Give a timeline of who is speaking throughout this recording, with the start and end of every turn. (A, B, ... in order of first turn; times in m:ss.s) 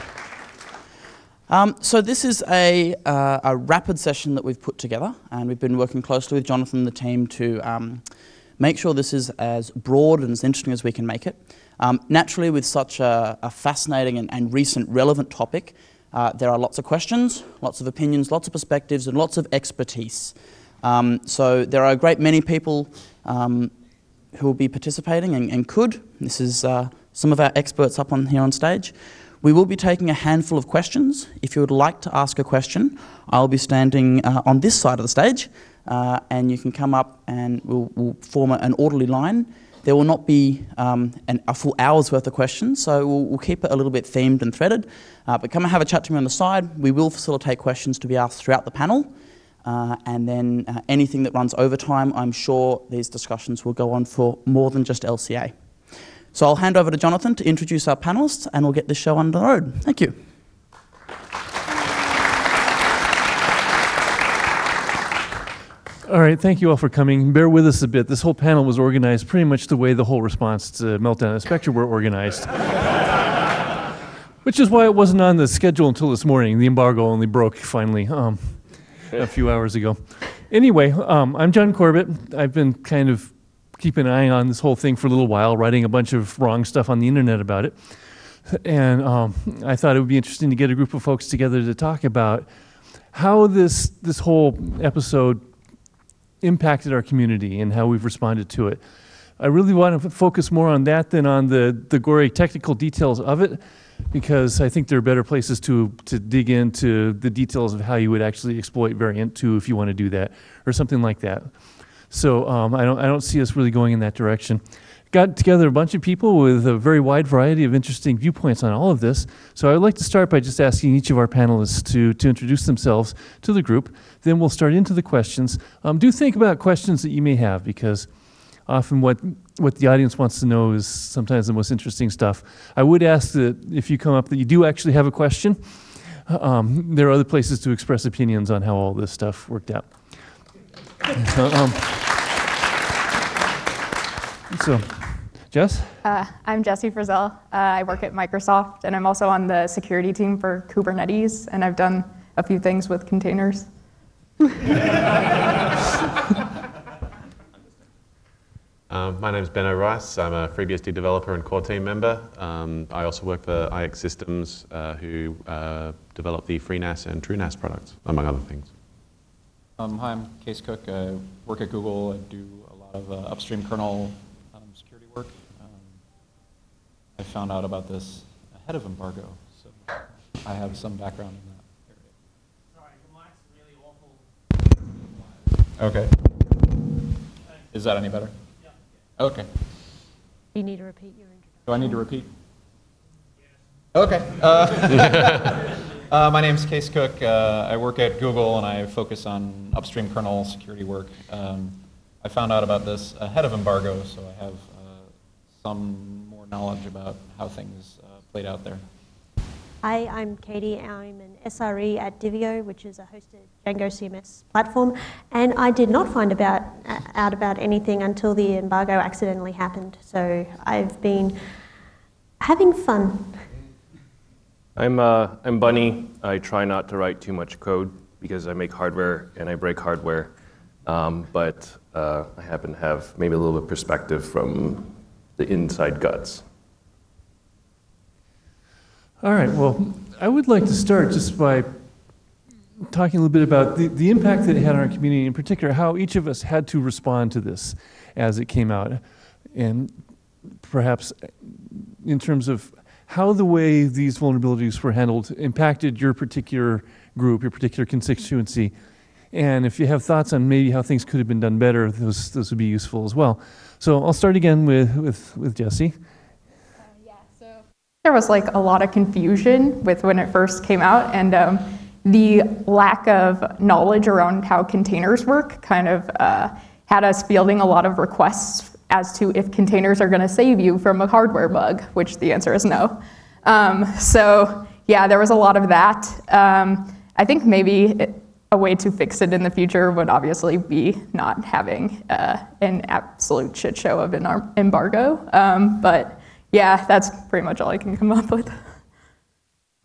0:01.5-0:23.7 A
0:24.3-0:49.1 A
0:49.6-0:55.6 A
0:56.3-1:00.2 A
1:06.0-1:12.8 B
1:14.4-1:35.4 B
1:36.4-2:20.4 B
2:21.2-2:22.1 B
2:24.5-2:26.0 B
2:26.0-2:33.7 C
2:38.9-2:48.7 D
2:49.8-2:56.0 E
2:57.2-2:59.8 E
3:00.4-3:02.0 E
3:05.8-3:06.5 E
3:07.7-3:08.4 E
3:09.2-3:09.5 E
3:10.5-3:12.0 F
3:11.7-3:12.3 E
3:13.9-3:25.0 E
3:25.6-3:28.8 E
3:29.8-3:41.4 F
3:42.4-3:43.4 F
3:44.8-3:50.3 G
3:50.8-3:56.4 G
3:59.2-4:02.2 B
4:02.8-4:18.7 B
4:19.3-4:26.0 B
4:28.0-4:58.8 C